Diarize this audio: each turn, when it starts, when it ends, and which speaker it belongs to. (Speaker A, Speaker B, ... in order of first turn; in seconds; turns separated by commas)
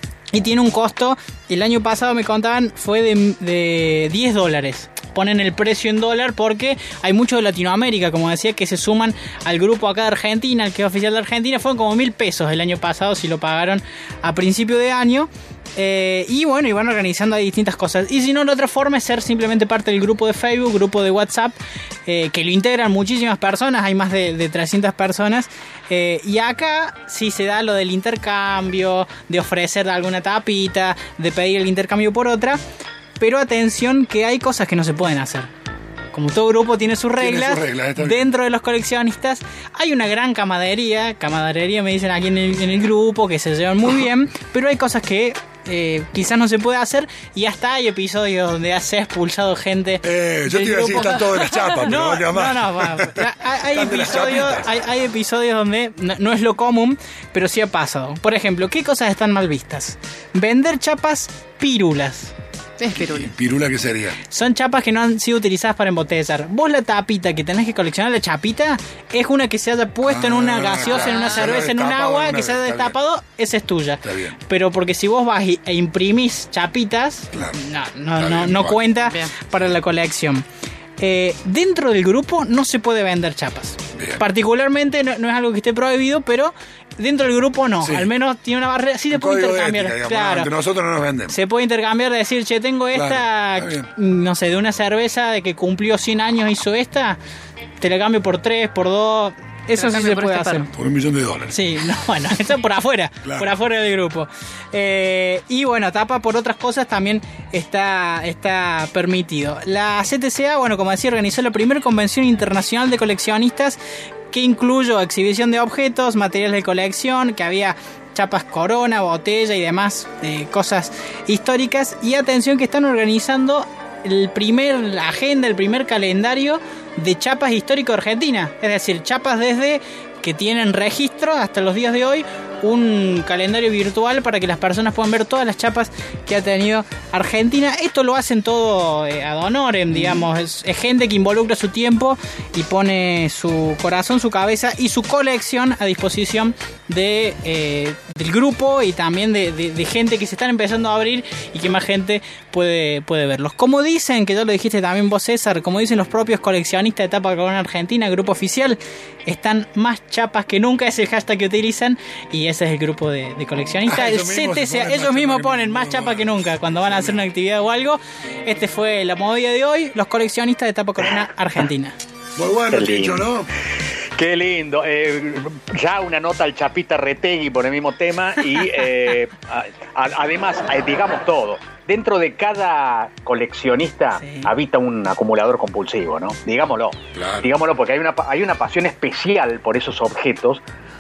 Speaker A: 0.3-32.6, Speaker A: 33.2-35.5, Speaker A: 36.1-62.3, Speaker B: 37.2-38.2, Speaker B: 50.0-54.7, Speaker C: 62.8-63.3, Speaker B: 62.9-64.2, Speaker A: 64.3-80.4, Speaker B: 70.0-72.9, Speaker C: 70.9-71.5, Speaker B: 74.0-74.3, Speaker B: 78.2-78.8, Speaker C: 79.0-79.3, Speaker A: 81.0-90.5, Speaker B: 83.9-84.2, Speaker B: 87.8-88.1, Speaker B: 89.1-91.3, Speaker A: 91.3-97.2, Speaker B: 92.9-93.9, Speaker A: 97.8-100.7, Speaker C: 99.7-100.7, Speaker B: 100.7-101.5, Speaker A: 101.5-113.8, Speaker A: 114.3-172.0, Speaker B: 163.9-167.2, Speaker B: 172.4-173.5, Speaker D: 172.7-173.3, Speaker D: 174.2-190.6, Speaker A: 184.2-184.5, Speaker B: 187.1-187.5